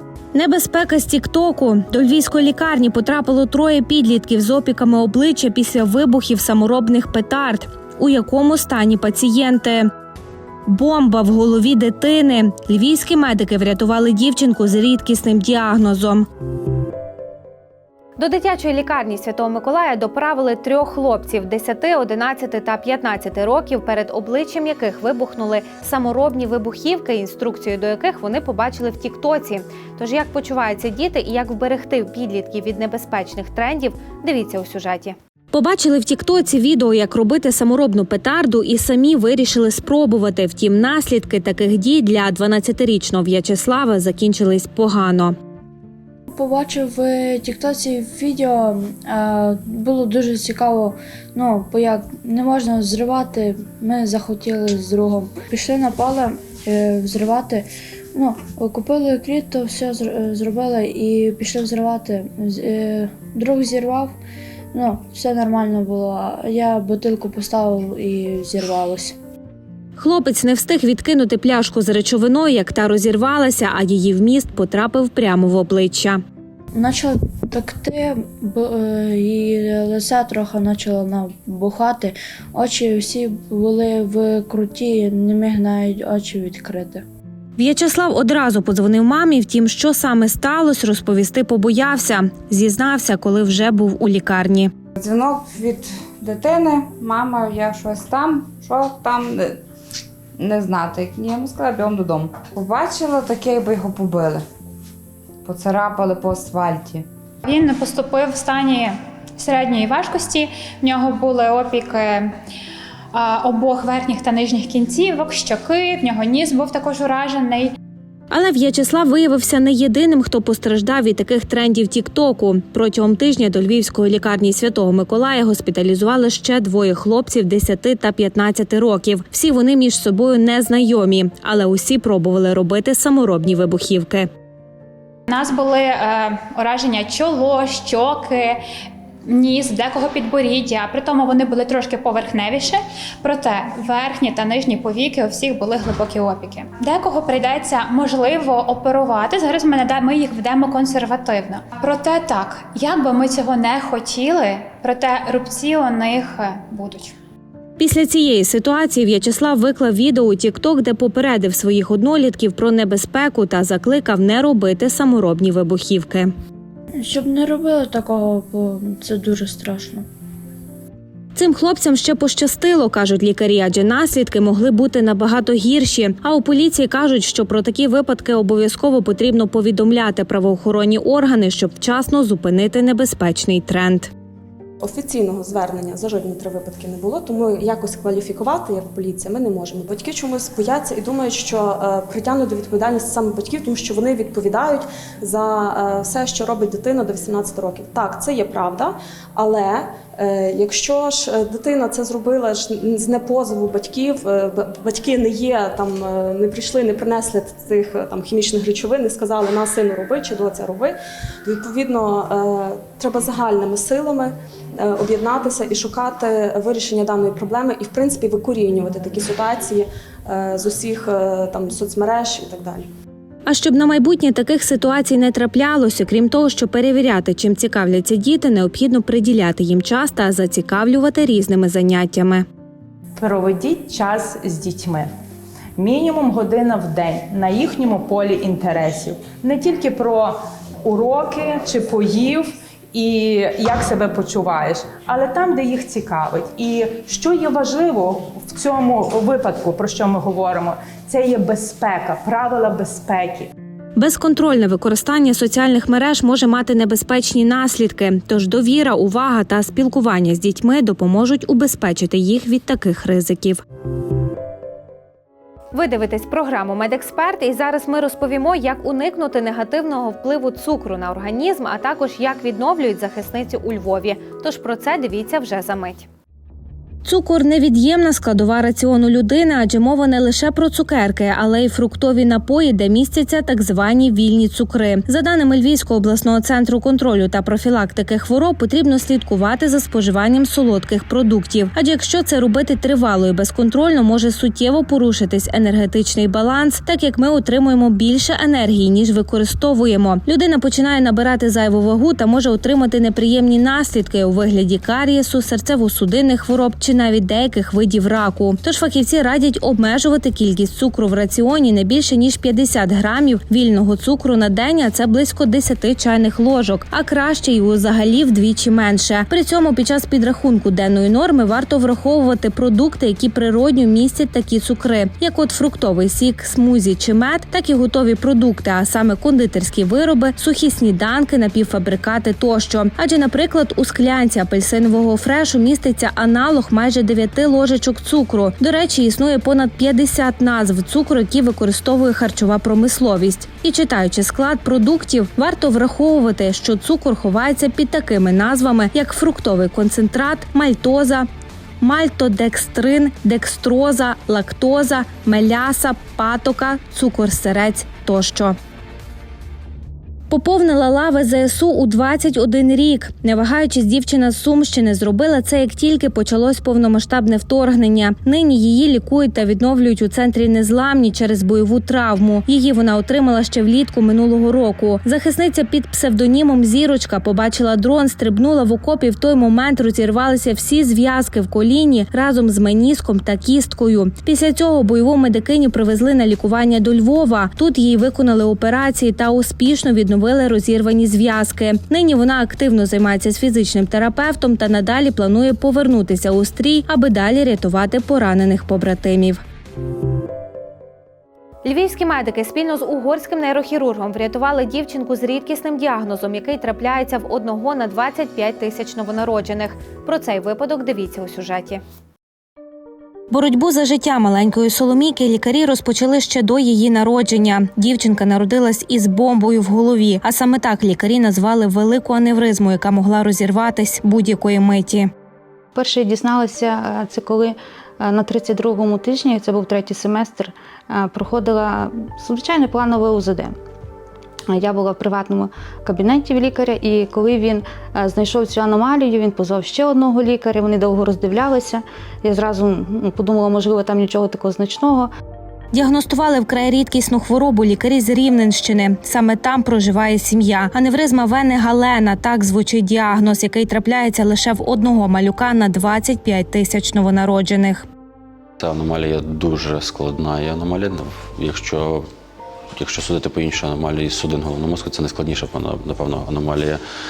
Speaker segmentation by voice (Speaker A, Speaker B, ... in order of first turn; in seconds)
Speaker A: 0.3-9.9, 10.7-16.3, 18.2-45.3, 70.0-76.2, 87.6-94.7, 118.3-134.3, 157.8-166.3, 171.3-184.1, 223.4-232.4, 253.9-263.6, 265.7-276.1, 277.0-351.3, 351.8-358.6, 360.3-399.4, 401.6-411.8, 413.3-425.1, 445.7-457.9
Speaker B: 46.3-64.1, 64.7-69.2, 76.7-87.0, 167.0-170.0
Speaker C: 95.0-99.6, 100.4-104.4, 105.4-107.0
Speaker D: 107.4-112.3, 113.1-117.7, 135.3-138.6, 139.2-157.1
Speaker E: 184.8-222.8
Speaker F: 233.2-235.1, 235.8-253.5
Speaker G: 425.7-433.5, 434.5-445.1
Speaker H: 458.6-462.0, 462.8-466.8